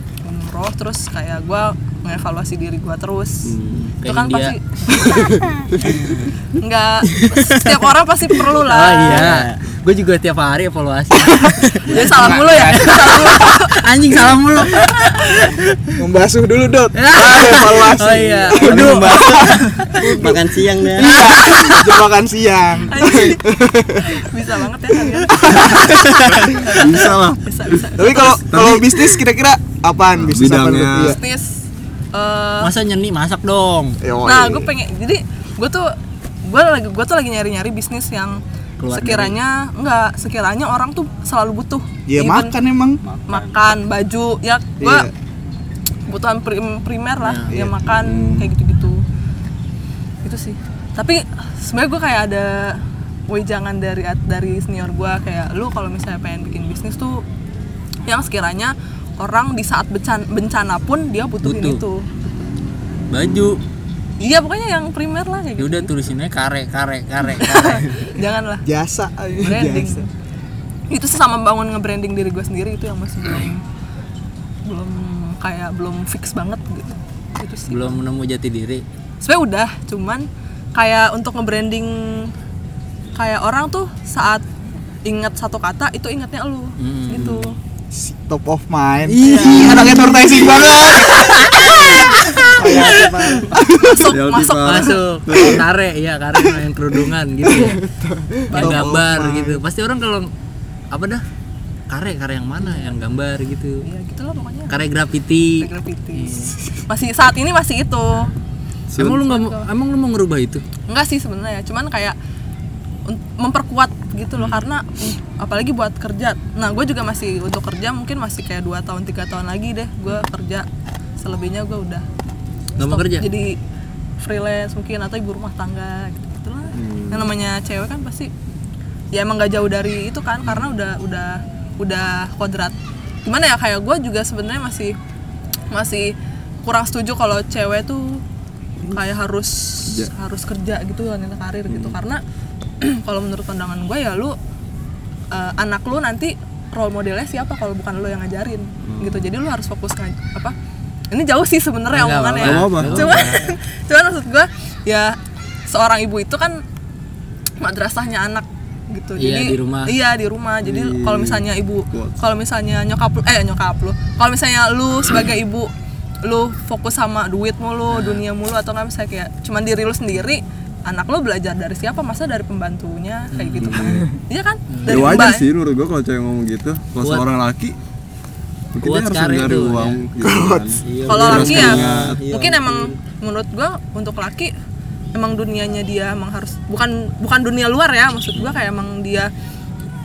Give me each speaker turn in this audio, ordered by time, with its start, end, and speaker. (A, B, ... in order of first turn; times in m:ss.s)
0:00.2-0:05.4 A
0:03.5-0:03.9 B
0:04.0-0:04.6 C
0:05.8-0:06.3 C
0:06.6-0:09.3 A
0:08.7-0:15.6 C
0:09.0-0:09.6 D
0:11.9-0:13.8 A
0:16.0-0:20.4 E
0:17.0-0:20.0 C
0:18.5-0:21.1 D
0:21.0-0:24.2 E
0:21.0-0:22.0 C
0:22.9-0:23.4 A
0:24.0-0:28.6 A
0:25.2-0:26.3 E
0:26.4-0:29.2 B
0:28.0-0:31.2 E
0:30.2-0:31.2 B
0:31.0-0:31.6 A
0:32.1-0:32.7 A
0:32.6-0:34.0 C
0:34.0-0:34.7 E
0:34.2-0:35.9 A
0:36.4-0:42.6 A
0:38.8-0:39.4 C
0:42.1-0:43.0 E
0:43.0-0:43.6 D
0:43.3-0:45.1 A
0:44.8-0:45.1 E
0:46.1-0:49.0 A
0:47.2-0:47.5 C
0:48.0-0:48.5 B
0:50.2-0:57.2 A
0:58.1-1:02.5 A
1:01.4-1:01.8 C
1:03.1-1:03.6 C
1:04.2-1:05.9 A
1:05.6-1:07.9 C
1:07.3-1:08.6 A
1:08.6-1:10.0 E
1:09.4-1:10.1 A
1:10.9-1:13.6 A
1:14.7-1:18.0 A
1:17.7-1:18.8 C
1:19.2-1:22.3 A
1:23.2-1:24.4 A
1:25.1-1:27.6 A
1:26.8-1:27.5 C
1:27.9-1:32.1 E
1:29.1-1:30.4 C
1:29.2-1:30.1 A
1:31.2-1:32.0 A
1:31.5-1:31.8 C
1:32.4-1:33.1 C
1:32.6-1:33.5 D
1:33.4-1:34.1 E
1:33.8-1:35.0 A
1:34.1-1:35.6 B
1:34.6-1:37.8 C
1:37.4-1:39.6 E
1:38.5-1:40.3 C
1:40.9-1:41.2 C
1:41.9-1:43.8 C
1:42.6-1:42.9 A
1:43.8-1:44.8 A
1:44.7-1:46.6 C
1:45.6-1:48.3 A
1:48.9-1:49.3 B
1:49.0-1:50.6 C
1:49.1-1:49.7 A
1:50.9-1:52.2 A
1:53.1-2:00.7 A
2:01.2-2:02.1 A
2:02.8-2:03.3 C
2:02.8-2:03.6 A
2:04.2-2:08.3 A
2:06.7-2:07.3 B
2:09.1-2:15.0 A
2:10.5-2:10.7 B
2:15.7-2:18.2 A
2:18.9-2:22.2 A
2:21.7-2:22.0 B
2:22.8-2:24.4 A
2:25.3-2:30.6 A
2:28.9-2:29.2 B
2:31.1-2:35.2 A
2:31.9-2:33.4 C
2:32.4-2:33.4 B
2:35.7-2:36.6 A
2:37.6-2:45.7 A
2:39.2-2:40.0 C
2:40.6-2:42.2 B
2:46.2-2:55.5 A
2:47.9-2:48.2 C
2:53.3-2:54.0 C
2:53.6-2:54.1 B
2:54.7-2:55.3 C
2:54.9-2:57.7 B
2:58.7-3:02.2 B
2:58.8-3:00.0 C
3:00.2-3:00.8 E
3:00.9-3:03.0 D
3:01.0-3:04.5 A
3:05.2-3:09.3 A